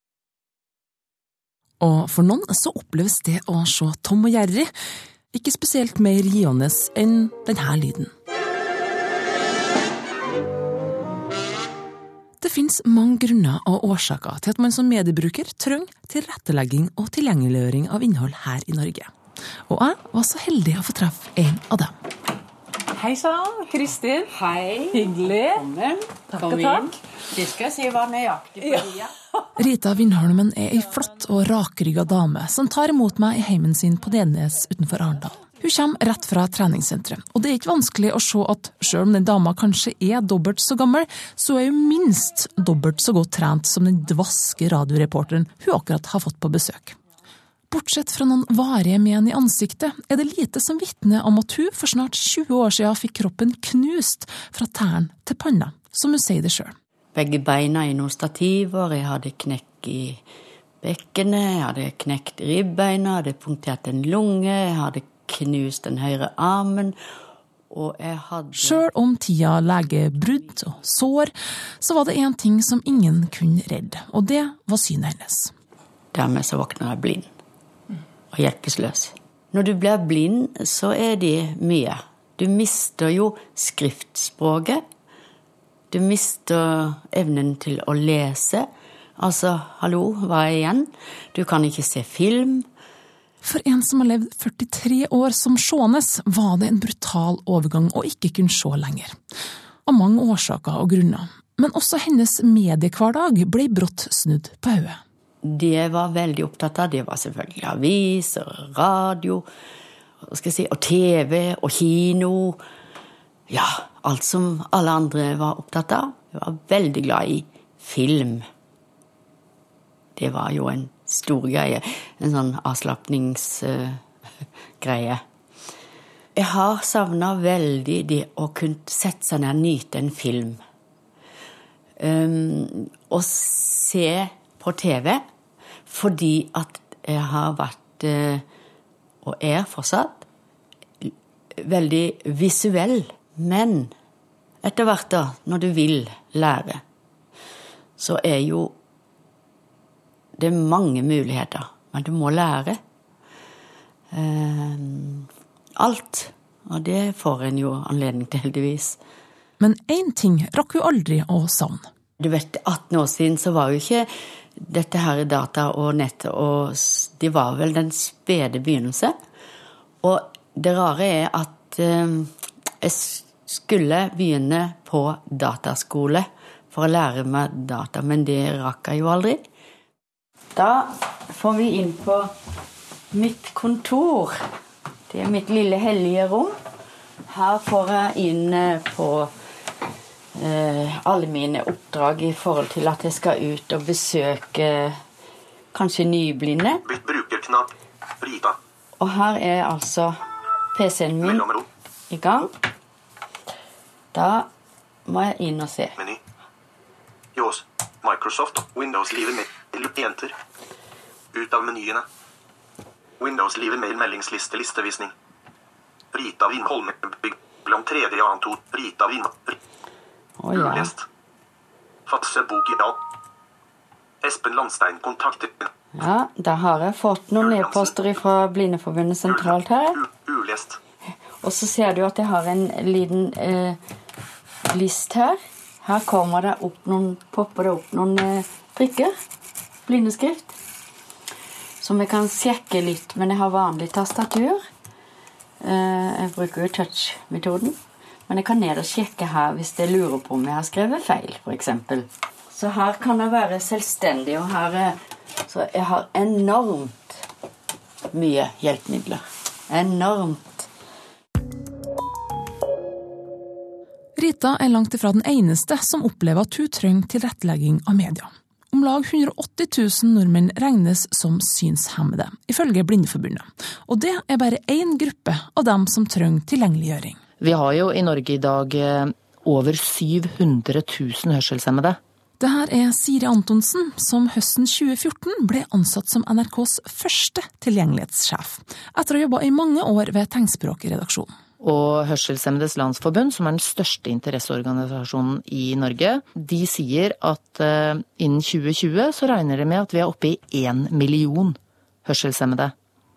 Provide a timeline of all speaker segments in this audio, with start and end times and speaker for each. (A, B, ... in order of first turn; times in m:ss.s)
0:01.8-0:04.7 A
0:05.3-0:08.1 A
0:12.4-0:19.1 A
0:19.7-0:21.9 A
0:23.0-0:24.3 B
0:24.3-0:29.1 C
0:25.0-0:25.6 B
0:26.5-0:26.9 B
0:29.6-0:47.0 A
0:47.7-0:56.8 A
0:57.2-1:00.2 C
1:00.8-1:07.0 C
1:07.7-1:08.9 C
1:08.6-1:15.5 A
1:16.1-1:17.3 C
1:18.3-1:24.8 C
1:25.9-1:32.7 C
1:33.4-1:39.2 A
1:39.8-1:45.0 A
1:45.4-1:49.5 C
1:50.2-1:52.6 C
1:53.5-1:58.5 C
2:00.2-2:04.0 C
2:04.8-2:05.2 C
2:06.4-2:10.6 C
2:12.0-2:15.2 C
2:15.9-2:18.4 C
2:19.2-2:20.2 C
2:21.0-2:23.9 C
2:24.6-2:26.8 C
2:28.0-2:28.7 C
2:30.4-2:32.8 C
2:34.1-2:39.0 C
2:39.6-2:41.9 A
2:42.2-2:49.2 C
2:50.0-2:59.4 C
3:00.5-3:02.3 C
3:03.1-3:04.4 C
3:05.1-3:06.6 C
3:07.3-3:09.3 C
3:10.4-3:15.0 C
3:15.7-3:16.8 C
3:16.9-3:18.6 D
3:19.0-3:20.2 C
3:20.8-3:21.4 C
3:21.2-3:21.6 D
3:22.1-3:22.5 C
3:24.1-3:24.5 C
3:25.1-3:26.0 C
3:27.4-3:30.3 D
3:31.3-3:32.0 D
3:33.2-3:35.1 D
3:36.1-3:39.6 D
3:40.4-3:40.9 C
3:40.5-3:41.0 D
3:42.1-3:43.0 D
3:44.2-3:45.7 D
3:45.9-3:50.0 C
3:47.4-3:47.9 D
3:49.3-3:50.8 D
3:51.4-3:53.8 C
3:54.7-3:59.1 C
3:59.9-4:00.6 C
4:01.8-4:04.6 C
4:05.6-4:07.8 C
4:08.3-4:17.3 C
4:18.1-4:20.7 C
4:24.2-4:37.2 A
4:37.4-4:42.0 E
4:42.4-4:51.3 A
4:51.6-5:02.7 E